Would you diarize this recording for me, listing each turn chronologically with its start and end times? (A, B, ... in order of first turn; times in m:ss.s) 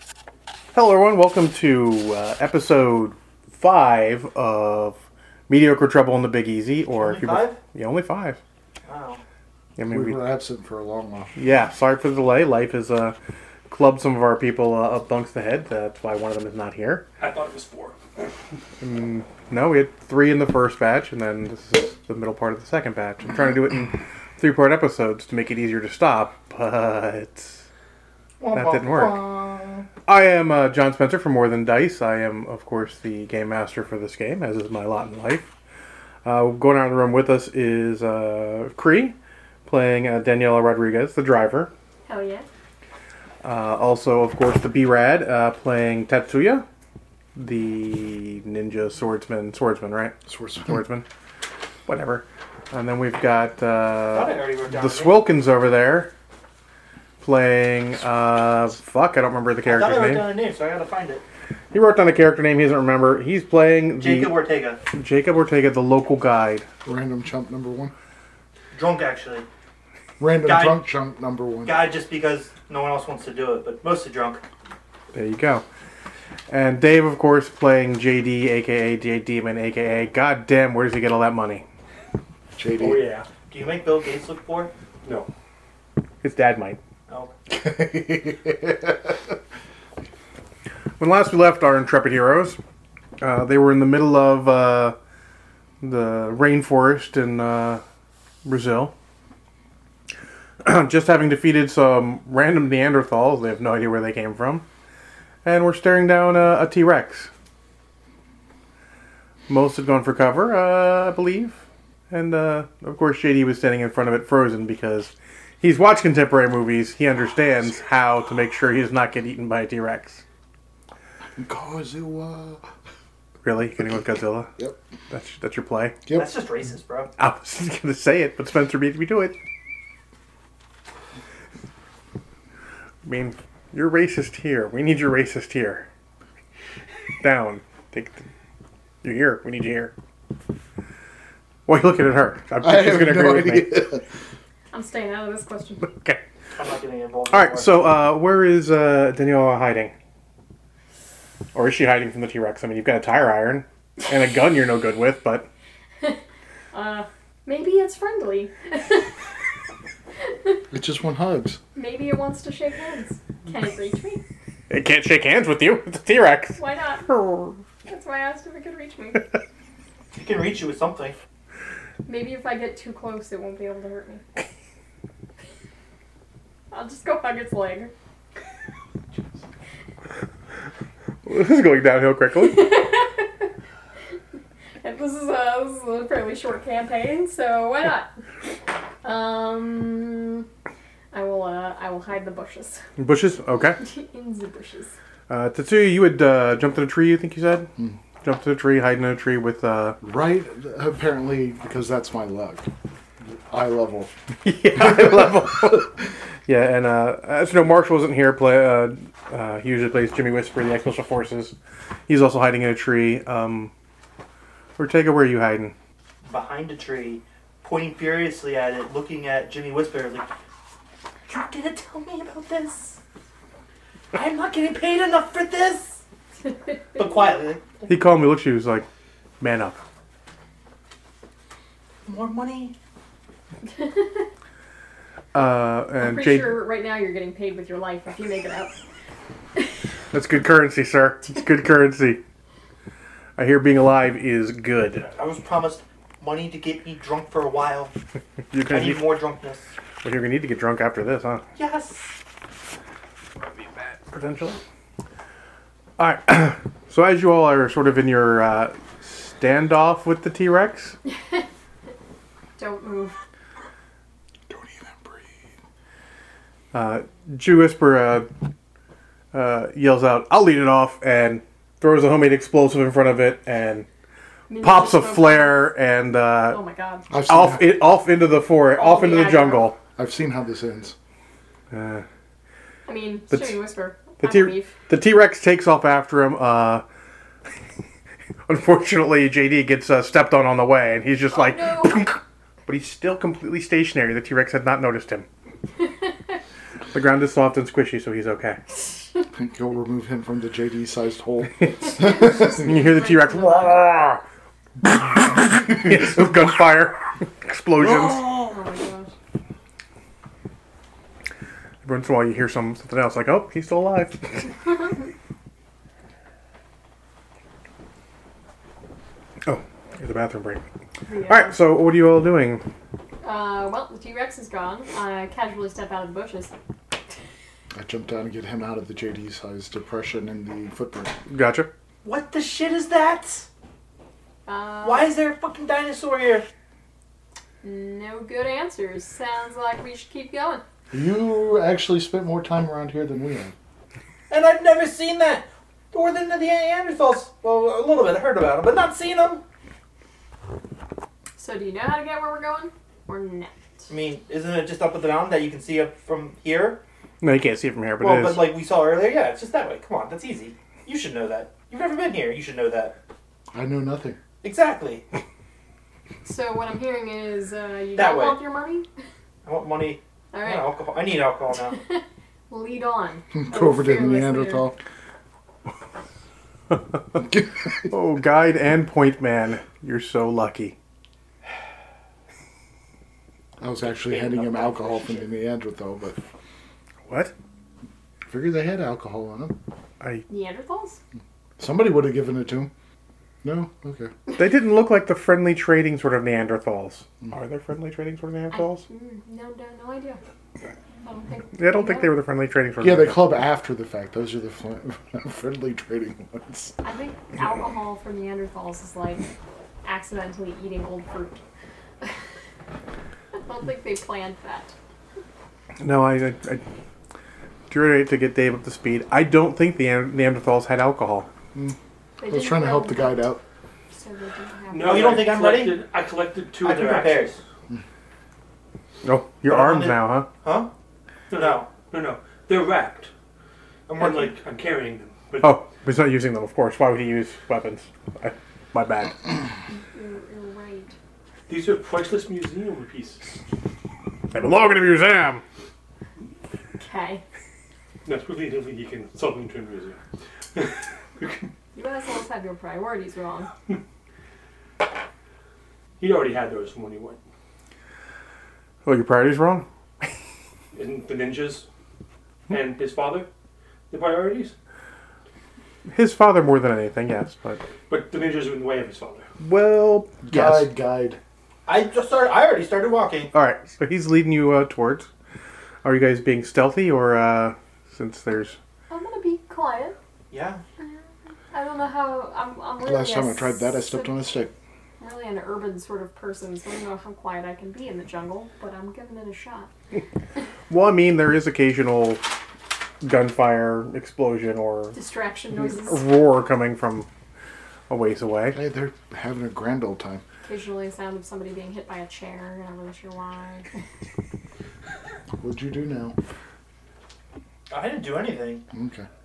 0:00.7-0:05.0 A
0:05.5-0:08.4 A
0:06.9-0:07.6 B
0:08.9-0:09.2 B
0:09.8-0:10.2 A
0:09.9-0:11.3 C
0:11.4-0:13.2 A
0:13.7-0:17.0 A
0:17.2-0:18.0 D
0:18.8-0:27.6 A
0:28.4-0:29.9 B
0:28.5-0:29.2 A
0:30.0-0:35.5 A
0:36.2-0:41.7 A
0:42.1-0:42.4 E
0:43.4-0:46.7 A
0:47.4-0:51.1 A
0:50.3-0:50.8 C
0:51.9-0:56.1 A
0:54.1-0:55.3 B
0:57.2-1:00.3 A
0:59.6-1:01.2 B
1:01.7-1:04.4 A
1:04.0-1:04.8 B
1:04.9-1:06.7 A
1:06.8-1:07.9 C
1:08.7-1:09.5 B
1:10.2-1:11.8 C
1:10.4-1:10.8 B
1:11.7-1:14.4 B
1:15.1-1:15.6 A
1:16.5-1:21.6 A
1:22.6-1:23.0 C
1:22.8-1:23.3 D
1:23.5-1:24.7 B
1:25.0-1:25.3 D
1:26.2-1:26.8 A
1:27.1-1:27.3 B
1:27.5-1:29.3 C
1:31.0-1:32.6 A
1:33.2-1:35.0 A
1:35.8-1:37.8 A
1:38.4-1:38.9 A
1:40.6-1:44.6 A
1:45.4-1:47.3 A
1:49.5-2:00.2 A
2:01.4-2:02.6 C
2:03.4-2:04.5 A
2:05.1-2:06.0 A
2:06.1-2:07.1 B
2:07.2-2:09.4 A
2:13.0-2:15.9 A
2:17.2-2:18.3 A
2:19.0-2:19.9 A
2:21.7-2:23.9 A
2:22.6-2:24.1 C
2:24.7-2:25.9 E
2:25.9-2:26.2 A
2:26.6-2:27.8 B
2:27.3-2:29.9 A
2:31.5-2:35.5 A
2:36.7-2:39.2 E
2:40.7-2:41.6 C
2:41.8-2:44.2 E
2:44.7-2:47.6 A
2:46.6-2:47.1 E
2:47.9-2:49.2 E
2:50.1-2:51.2 B
2:52.0-2:54.2 E
2:56.7-2:57.9 E
3:01.2-3:02.8 A
3:02.4-3:03.5 E
3:04.8-3:08.1 E
3:09.0-3:10.5 E
3:11.1-3:12.8 E
3:13.0-3:13.8 A
3:13.8-3:14.9 E
3:15.3-3:20.0 A
3:20.0-3:22.7 C
3:23.2-3:24.1 C
3:24.4-3:33.7 A
3:24.8-3:25.9 C
3:34.8-3:35.8 A
3:36.2-3:40.3 B
3:41.3-3:43.0 B
3:44.1-3:46.0 B
3:46.5-3:47.0 E
3:47.0-3:47.7 B
3:47.9-3:48.9 A
3:49.4-3:49.8 A
3:52.1-3:52.8 B
3:53.6-3:54.3 E
3:55.3-3:56.6 A
3:56.0-3:58.7 E
4:00.1-4:02.2 A
4:03.4-4:05.1 A
4:05.2-4:07.9 B
4:08.5-4:09.0 A
4:08.7-4:09.7 B
4:10.0-4:11.4 A
4:11.6-4:12.1 B
4:13.6-4:14.6 A
4:16.0-4:21.0 A
4:22.6-4:23.2 E
4:24.5-4:25.3 C
4:26.7-4:28.3 A
4:29.3-4:33.9 A
4:34.5-4:35.7 E
4:34.6-4:36.6 A
4:36.5-4:37.1 E
4:37.1-4:37.8 C
4:37.3-4:39.8 A
4:38.8-4:39.7 E
4:40.0-4:41.0 C
4:41.7-4:42.0 A
4:42.9-4:44.8 E
4:43.3-4:43.6 A
4:44.2-4:46.8 A
4:48.5-4:55.3 A
4:51.3-4:52.0 E
4:56.9-4:58.6 A
4:59.3-5:02.6 C
5:01.8-5:03.8 E
5:02.0-5:04.2 A
5:04.8-5:08.4 A
5:05.6-5:06.2 C
5:08.3-5:09.1 E
5:11.8-5:14.5 A
5:14.7-5:14.9 E
5:19.4-5:20.6 A
5:21.1-5:21.6 E
5:21.3-5:22.6 A
5:23.2-5:26.5 E
5:27.7-5:31.2 C
5:31.3-5:31.7 A
5:32.0-5:33.5 B
5:34.5-5:35.1 E
5:34.8-5:36.5 B
5:37.6-5:40.6 E
5:40.9-5:43.5 C
5:44.3-5:49.4 B
5:51.4-5:53.9 E
5:53.9-5:56.8 B
5:57.2-5:58.5 A
5:58.0-6:03.0 B
6:03.5-6:04.2 C
6:04.4-6:05.0 B
6:06.2-6:08.9 E
6:08.0-6:08.4 B
6:09.4-6:11.8 B
6:10.3-6:10.8 E
6:11.7-6:14.7 E
6:13.3-6:14.8 C
6:17.9-6:20.8 A
6:23.6-6:26.2 C
6:23.9-6:25.3 B
6:27.1-6:27.3 A
6:28.3-6:29.6 C
6:30.0-6:30.3 A
6:30.3-6:31.0 E
6:31.6-6:32.7 C
6:33.4-6:34.1 C
6:34.3-6:38.8 A
6:38.5-6:40.2 E
6:41.0-6:42.1 E
6:41.6-6:43.4 A
6:42.8-6:46.8 C
6:46.8-6:49.3 E
6:49.8-6:51.4 E
6:53.4-6:54.7 E
6:55.8-6:56.6 A
6:57.7-7:01.3 A
7:01.5-7:03.4 C
7:02.2-7:03.3 E
7:03.9-7:05.2 E
7:04.7-7:07.3 D
7:04.8-7:05.8 B
7:06.6-7:07.4 B
7:09.0-7:10.3 A
7:09.4-7:10.7 B
7:11.3-7:13.1 D
7:11.3-7:11.7 B
7:13.9-7:14.4 B
7:14.0-7:15.6 D
7:15.4-7:19.2 A
7:19.7-7:20.9 E
7:21.5-7:23.4 D
7:24.3-7:25.4 A
7:26.8-7:27.2 E
7:28.0-7:30.0 D
7:30.5-7:31.5 D
7:31.7-7:33.5 E
7:36.0-7:37.2 D
7:38.8-7:39.7 A
7:40.7-7:41.7 D
7:42.5-7:43.3 D
7:43.9-7:44.5 D
7:45.9-7:47.6 A
7:47.9-7:49.3 D
7:49.4-7:50.7 A
7:50.2-7:51.2 C
7:51.7-7:53.3 B
7:53.3-7:55.1 A
7:55.8-7:58.6 A
7:58.9-8:00.0 E
8:00.3-8:00.6 B
8:01.5-8:04.1 E
8:02.8-8:04.5 C
8:05.0-8:09.7 E
8:10.7-8:12.2 A
8:13.0-8:15.0 A
8:14.9-8:16.0 E
8:15.5-8:17.1 A
8:17.9-8:18.6 A
8:18.5-8:20.2 C
8:20.4-8:23.7 E
8:25.4-8:26.2 C
8:27.7-8:28.6 B
8:28.7-8:29.1 C